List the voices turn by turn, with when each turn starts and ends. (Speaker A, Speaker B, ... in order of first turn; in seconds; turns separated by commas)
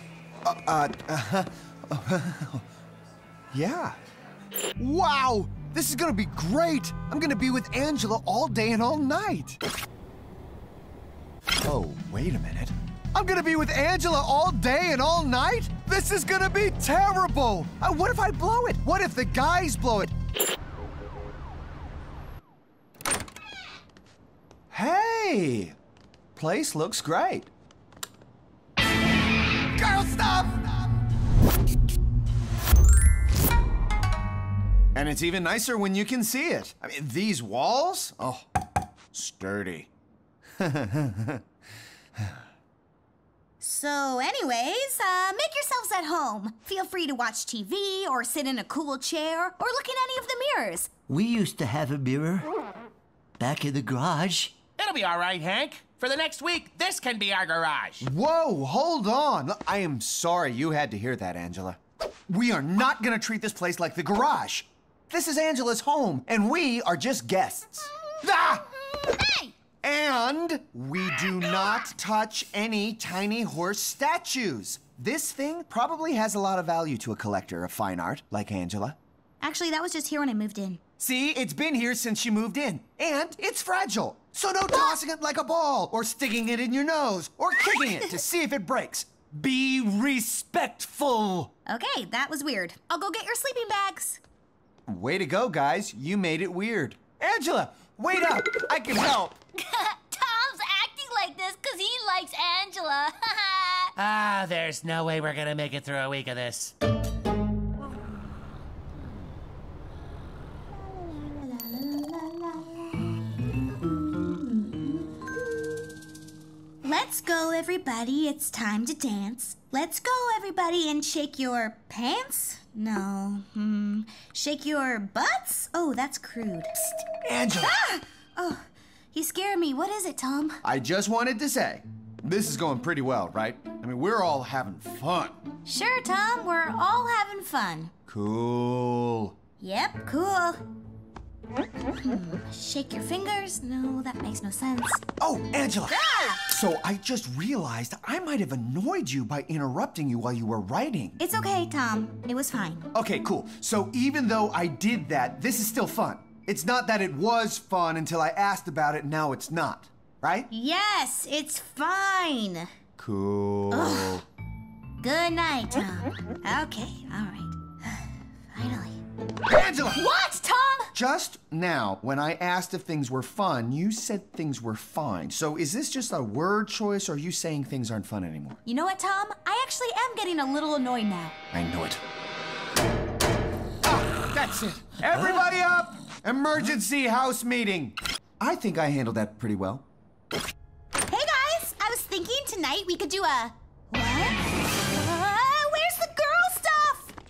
Speaker A: 0.4-2.6, Speaker A: 3.5-4.0, Speaker A: 4.8-9.6, Speaker A: 11.6-20.1, Speaker A: 24.7-25.8, Speaker A: 26.4-27.5, Speaker A: 29.8-30.7, Speaker A: 34.9-38.5, Speaker A: 39.1-39.9, Speaker A: 40.6-41.4, Speaker B: 43.6-50.9, Speaker C: 51.1-52.5, Speaker C: 53.4-54.5, Speaker D: 54.8-58.1, Speaker A: 58.0-68.7, Speaker A: 69.8-79.0, Speaker B: 79.4-80.8, Speaker A: 81.0-91.5, Speaker B: 91.7-94.2, Speaker A: 94.9-99.4, Speaker E: 99.6-103.9, Speaker D: 104.0-106.7, Speaker B: 110.9-113.0, Speaker B: 114.0-115.8, Speaker B: 116.8-127.0, Speaker A: 127.2-127.8, Speaker B: 127.6-130.6, Speaker A: 130.6-135.4, Speaker B: 135.7-137.9, Speaker A: 138.1-139.4, Speaker B: 139.6-140.6, Speaker B: 141.9-145.0, Speaker A: 145.2-151.2, Speaker B: 145.9-146.4, Speaker B: 151.2-152.9, Speaker A: 152.9-160.5, Speaker B: 160.5-162.7, Speaker A: 163.0-164.2, Speaker B: 163.7-164.2, Speaker B: 165.0-169.0, Speaker A: 169.5-170.0, Speaker B: 169.9-170.9, Speaker A: 170.9-178.6, Speaker B: 178.7-181.3, Speaker A: 181.5-182.0, Speaker A: 183.8-189.8, Speaker B: 191.1-197.1